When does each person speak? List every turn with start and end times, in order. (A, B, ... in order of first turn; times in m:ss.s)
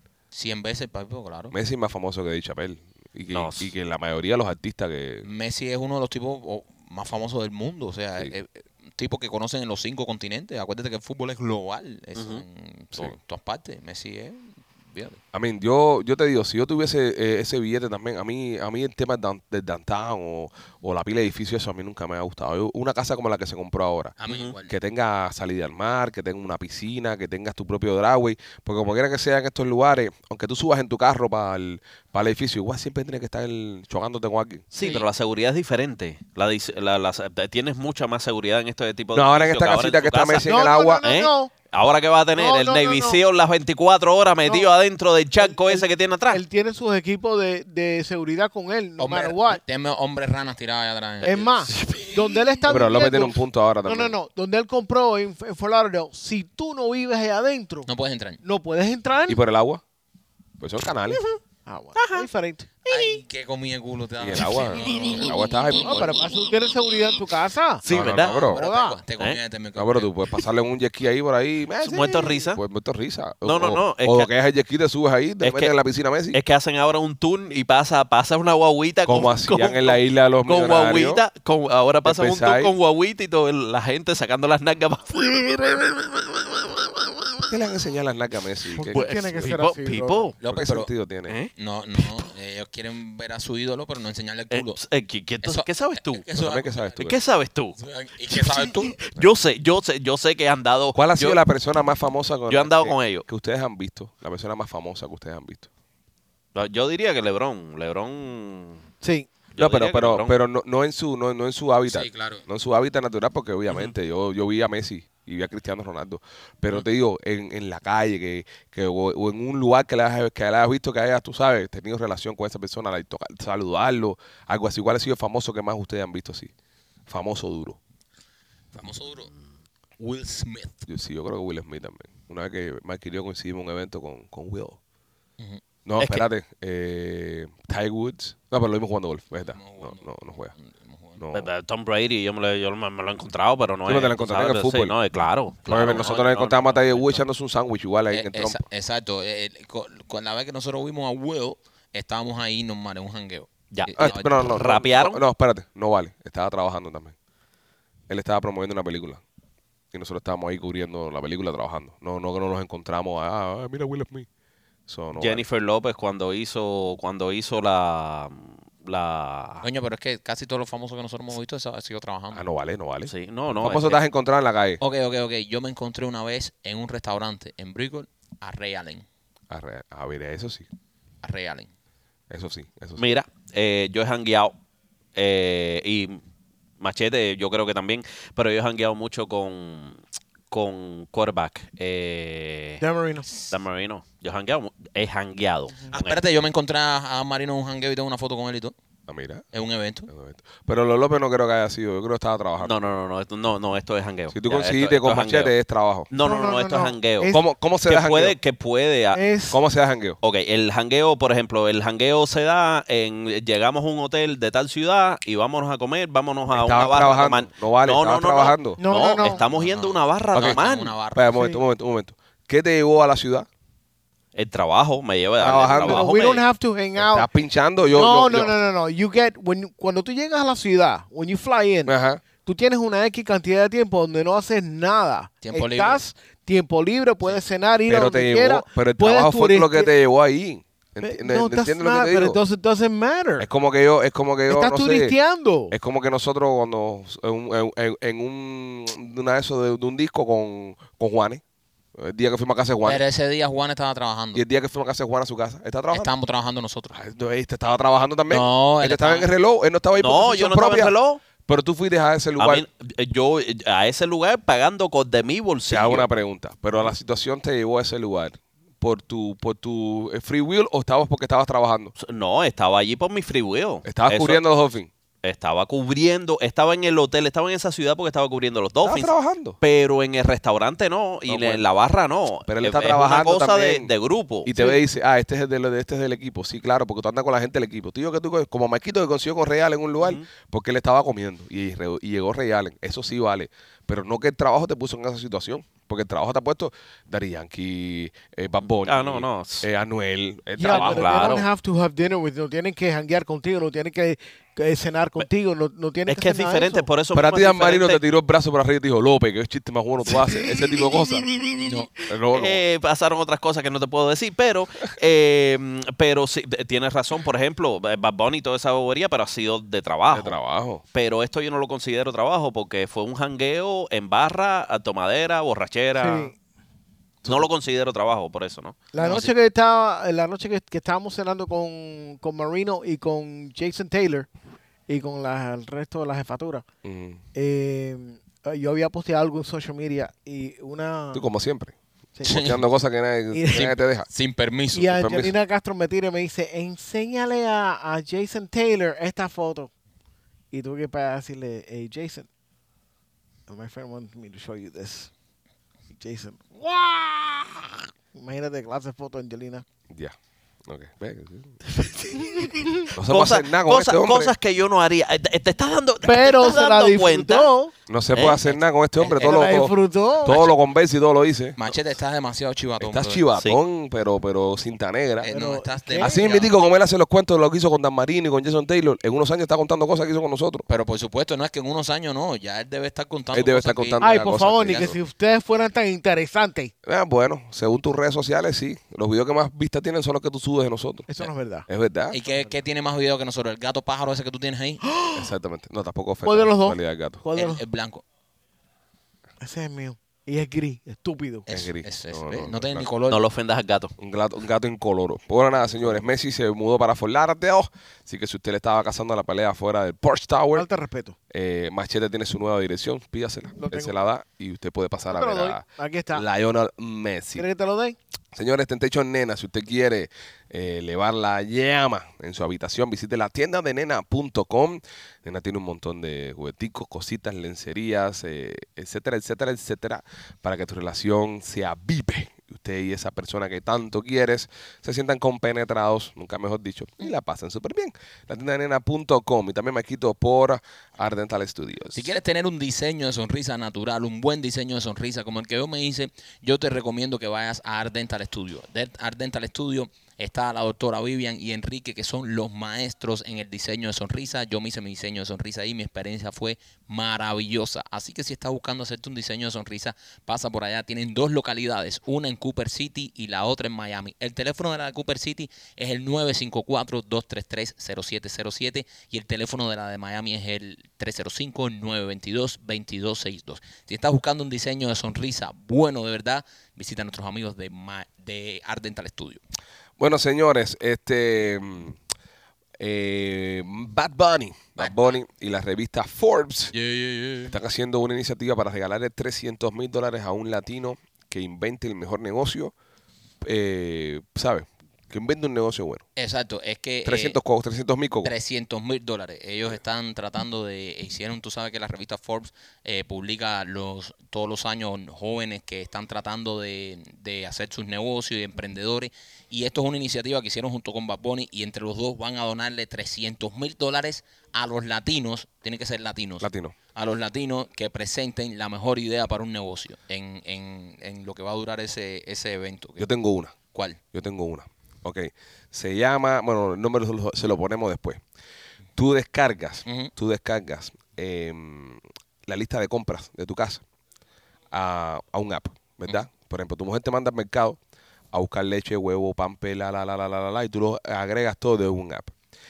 0:00.3-0:01.5 A
0:01.5-0:05.2 B
0:03.3-0:03.7 C
0:05.2-0:15.2 A
0:12.2-0:12.4 C
0:15.3-0:24.1 B
0:24.2-0:24.7 A
0:24.3-0:24.5 C
0:24.6-0:34.7 B
0:34.7-0:40.5 C
0:39.1-0:41.0 B
0:40.4-0:41.5 D
0:41.0-0:46.4 C
0:42.4-0:43.2 D
0:44.4-0:44.7 D
0:45.4-0:49.6 D
0:49.0-0:51.6 A
0:51.2-0:57.9 D
0:51.7-0:52.2 C
0:52.6-0:54.1 B
0:57.8-0:58.4 A
0:58.4-0:59.4 D
0:59.3-0:59.8 B
1:00.6-1:01.2 B
1:01.1-1:01.4 C
1:01.6-1:03.2 D
1:02.0-1:02.3 C
1:02.9-1:05.6 A
1:04.2-1:06.2 B
1:05.8-1:07.9 D
1:07.8-1:08.4 C
1:07.9-1:08.6 B
1:08.0-1:10.1 A
1:08.5-1:09.0 D
1:09.8-1:16.4 B
1:11.8-1:12.6 C
1:13.4-1:14.3 C
1:15.4-1:15.7 C
1:16.3-1:27.3 C
1:19.0-1:21.2 B
1:22.0-1:22.7 B
1:27.5-1:29.6 B
1:28.8-1:30.3 D
1:28.9-1:30.4 C
1:30.4-1:30.9 A
1:30.5-1:31.4 B
1:31.3-1:32.3 C
1:31.6-1:34.8 A
1:34.5-1:36.3 C
1:35.4-1:37.1 A
1:36.4-1:37.1 B
1:37.0-1:37.8 C
1:37.8-1:39.0 A
1:38.3-1:41.4 C
1:40.9-1:45.7 B
1:42.5-1:43.2 C
1:46.5-1:48.8 C
1:49.0-1:49.3 D
1:49.5-1:50.3 C
1:49.6-2:06.5 B
1:51.9-1:52.4 A
1:53.7-1:53.9 C
2:07.1-2:07.8 B
2:08.7-2:09.3 A
2:10.0-2:10.8 A
2:10.8-2:14.8 B
2:15.8-2:20.5 B
2:16.0-2:16.2 C
2:19.5-2:21.2 A
2:21.2-2:21.5 B
2:21.3-2:27.2 C
2:23.8-2:24.9 B
2:25.7-2:26.3 A
2:25.7-2:28.6 B
2:28.1-2:34.8 A
2:33.7-2:35.2 C
2:34.0-2:37.1 B
2:38.1-2:39.2 B
2:39.9-2:44.3 B
2:44.9-2:45.4 B
2:45.2-2:49.6 C
2:49.6-2:52.4 A
2:52.3-2:54.8 B
2:53.1-2:54.0 C
2:54.8-2:59.0 A
2:59.5-3:00.7 B
3:01.2-3:01.7 A
3:02.3-3:03.0 B
3:03.0-3:04.5 C
3:05.1-3:06.2 C
3:06.8-3:10.0 C
3:10.5-3:12.8 C
3:12.8-3:13.3 D
3:13.4-3:16.2 C
3:15.9-3:18.7 A
3:19.1-3:19.4 B
3:19.5-3:20.1 A
3:20.1-3:22.9 B
3:22.6-3:25.5 C
3:24.3-3:26.1 B
3:26.1-3:27.3 C
3:26.2-3:27.4 D
3:27.3-3:28.4 B
3:27.9-3:29.2 C
3:29.1-3:29.6 D
3:29.5-3:30.2 B
3:30.2-3:40.9 C
3:36.5-3:38.8 B
3:38.8-3:39.4 D
3:39.2-3:41.4 A
3:40.3-3:40.6 B
3:41.1-3:43.5 B
3:44.3-3:46.4 C
3:45.4-3:46.1 B
3:45.6-3:47.3 D
3:47.0-3:48.6 B
3:47.9-3:51.9 D
3:51.8-3:52.2 B
3:52.4-3:59.9 D
3:55.4-3:56.0 A
3:57.9-4:02.4 B
4:01.0-4:03.5 D
4:03.4-4:05.2 B
4:04.5-4:05.7 D
4:05.7-4:11.4 B
4:12.0-4:13.0 B
4:12.8-4:14.4 A
4:14.3-4:16.1 B
4:15.9-4:16.9 A
4:16.9-4:20.9 B
4:18.3-4:19.3 A
4:20.0-4:21.2 C
4:21.4-4:22.6 B
4:22.4-4:26.1 C
4:25.7-4:31.9 B
4:32.0-4:34.4 C
4:33.8-4:34.9 B
4:35.2-4:44.5 C
4:38.8-4:39.6 B
4:41.3-4:41.6 B
4:42.5-4:43.9 B
4:44.4-5:01.3 B
4:50.0-4:50.2 C
4:58.6-4:59.7 C
5:00.6-5:06.9 D
5:00.6-5:01.5 C
5:06.1-5:08.0 C
5:07.1-5:11.2 B
5:11.3-5:11.8 C
5:11.6-5:11.9 A
5:12.0-5:12.6 B
5:12.3-5:20.4 C
5:20.1-5:20.8 B
5:20.9-5:26.3 C
5:26.0-5:26.3 D
5:27.2-5:28.8 C
5:28.9-5:34.3 D
5:29.0-5:29.3 A
5:34.9-5:36.6 D
5:36.8-5:37.2 B
5:37.3-5:41.2 D
5:41.1-5:41.7 B
5:42.2-5:42.6 D
5:42.2-5:42.6 A
5:42.2-5:44.1 B
5:43.3-5:43.6 D
5:43.5-5:45.0 A
5:44.7-5:49.7 D
5:44.9-5:45.3 B
5:50.5-5:52.3 D
5:53.5-5:55.1 D
5:55.9-5:59.6 D
6:00.7-6:01.6 B
6:01.9-6:07.5 C
6:02.1-6:02.9 D
6:02.9-6:04.3 B
6:06.0-6:07.7 D
6:07.9-6:11.6 B
6:08.1-6:08.6 C
6:09.1-6:10.4 D
6:09.1-6:09.6 A
6:10.2-6:10.5 A
6:11.6-6:13.2 A
6:12.8-6:15.3 B
6:15.2-6:16.5 A
6:15.3-6:16.2 D
6:16.0-6:20.7 B
6:20.7-6:24.9 A
6:23.3-6:25.0 B
6:24.0-6:26.7 D
6:26.8-6:31.1 B
6:31.1-6:31.6 D
6:31.7-6:32.2 B
6:32.1-6:34.8 A
6:34.9-6:35.3 D
6:35.1-6:37.2 B
6:36.2-6:37.6 D
6:37.3-6:38.0 A
6:39.4-6:41.5 D
6:41.5-6:42.9 B
6:41.5-6:43.2 A
6:43.1-6:43.9 C
6:44.0-6:50.7 B
6:50.5-6:51.2 D
6:51.3-6:57.4 B
6:53.6-6:54.0 D
6:55.1-6:56.2 D
6:57.4-6:58.0 D
6:58.3-7:22.1 B
7:21.9-7:59.4 A
8:00.0-8:02.0 B
8:02.8-8:06.7 B
8:04.8-8:05.1 A
8:06.7-8:07.5 A
8:07.5-8:12.7 B
8:13.4-8:16.0 B
8:16.2-8:17.4 A
8:17.0-8:18.3 B
8:18.2-8:43.0 A
8:36.4-8:36.7 B
8:43.0-8:43.5 B
8:43.7-8:44.0 A
8:44.1-8:48.2 B
8:49.0-8:53.8 B
8:49.8-8:50.1 A
8:54.7-8:57.8 B
8:58.3-9:02.3 B